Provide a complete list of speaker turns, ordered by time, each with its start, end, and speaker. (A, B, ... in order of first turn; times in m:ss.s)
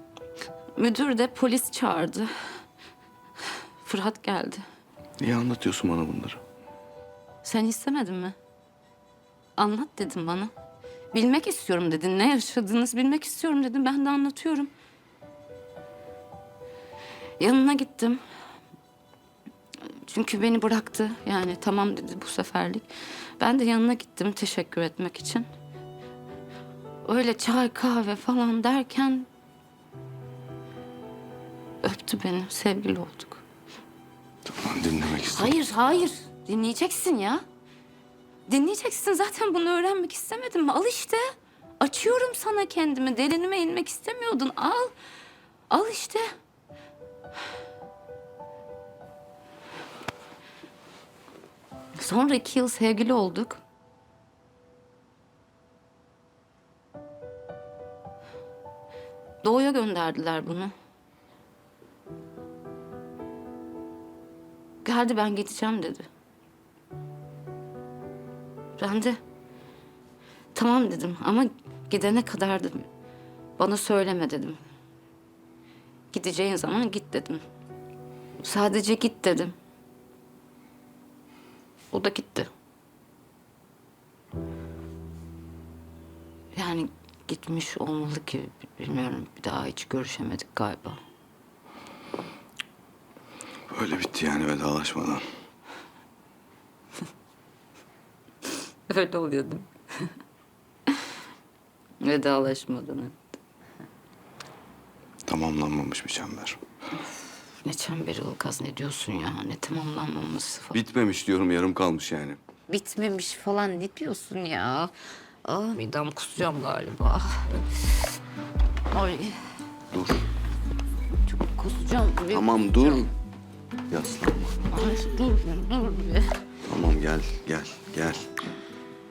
0:00.8-0:02.3 A
0:03.8-0:04.6 A
0:05.2-0:06.4 B
0:07.4-0:08.4 A
0:09.6-0:10.5 A
0:11.1-0:14.7 A
0:17.4-0:18.2 A
0:19.9-0:22.9 A
0:23.4-0:25.5 A
0:27.0-0:29.3 A
0:31.8-0:33.4 A
0:34.5-0:35.6 B
0:35.2-0:37.4 A
0:38.5-0:41.2 A
0:41.8-0:44.9 A
0:45.7-0:46.3 A
0:52.0-0:53.6 A
0:59.4-1:00.7 A
1:04.8-1:06.1 A
1:08.8-1:09.2 A
1:10.6-1:12.9 A
1:13.6-1:14.6 A
1:16.1-1:17.4 A
1:18.4-1:19.6 A
1:21.9-1:22.5 A
1:26.5-1:31.0 A
1:33.7-1:35.3 B
1:38.9-1:40.1 A
1:42.0-1:43.2 A
1:45.3-1:46.6 B
1:47.6-1:50.8 A
1:50.7-1:52.4 B
1:52.7-1:54.9 A
1:55.4-1:58.0 A
1:58.9-1:59.4 A
1:59.9-2:00.3 B
2:01.3-2:03.1 A
2:02.3-2:03.1 B
2:03.9-2:04.6 B
2:04.7-2:06.4 A
2:06.6-2:08.3 B